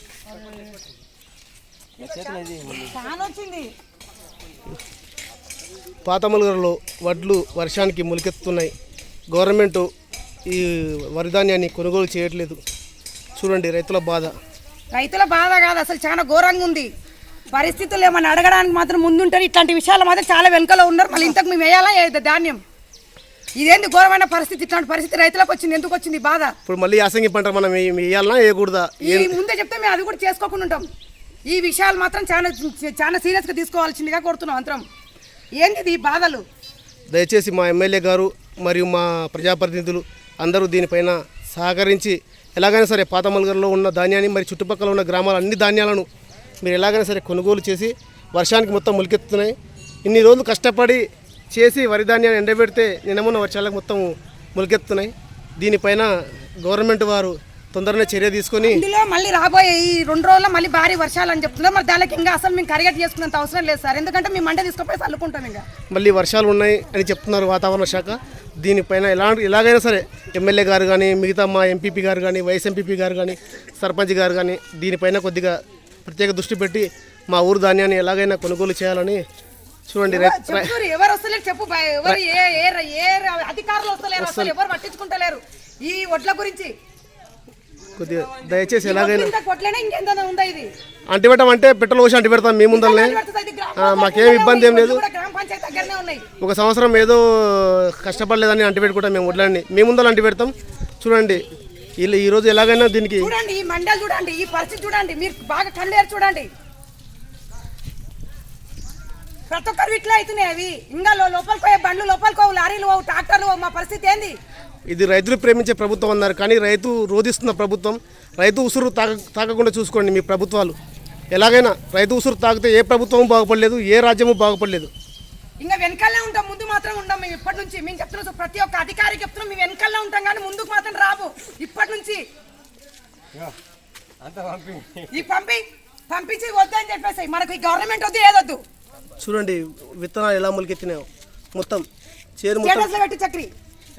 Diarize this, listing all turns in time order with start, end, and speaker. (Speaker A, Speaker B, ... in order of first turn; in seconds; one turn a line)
Speaker A: 2.0-3.0
Speaker B: 2.0-3.7
Speaker C: 6.0-8.7
Speaker C: 9.3-9.9
Speaker C: 10.5-12.6
Speaker C: 13.4-14.3
Speaker B: 14.9-16.9
Speaker B: 17.5-22.6
Speaker B: 23.6-26.5
Speaker C: 26.7-29.4
Speaker B: 29.0-30.9
Speaker B: 31.5-34.9
Speaker B: 35.6-36.4
Speaker C: 37.1-46.1
Speaker C: 46.6-58.8
Speaker B: 58.6-65.7
Speaker C: 65.9-79.2
Speaker C: 79.9-80.8
Speaker B: 80.1-86.7
Speaker C: 84.2-84.5
Speaker C: 88.0-89.3
Speaker B: 88.8-90.7
Speaker C: 91.1-93.2
Speaker B: 92.7-96.2
Speaker C: 93.8-95.0
Speaker C: 96.4-101.5
Speaker C: 102.0-103.3
Speaker B: 103.2-106.5
Speaker B: 109.5-114.4
Speaker C: 114.9-120.8
Speaker C: 121.3-124.9
Speaker B: 125.6-132.2
Speaker A: 134.2-135.1
Speaker B: 135.1-138.6
Speaker C: 139.2-141.9
Speaker C: 142.4-142.9
Speaker B: 142.6-143.5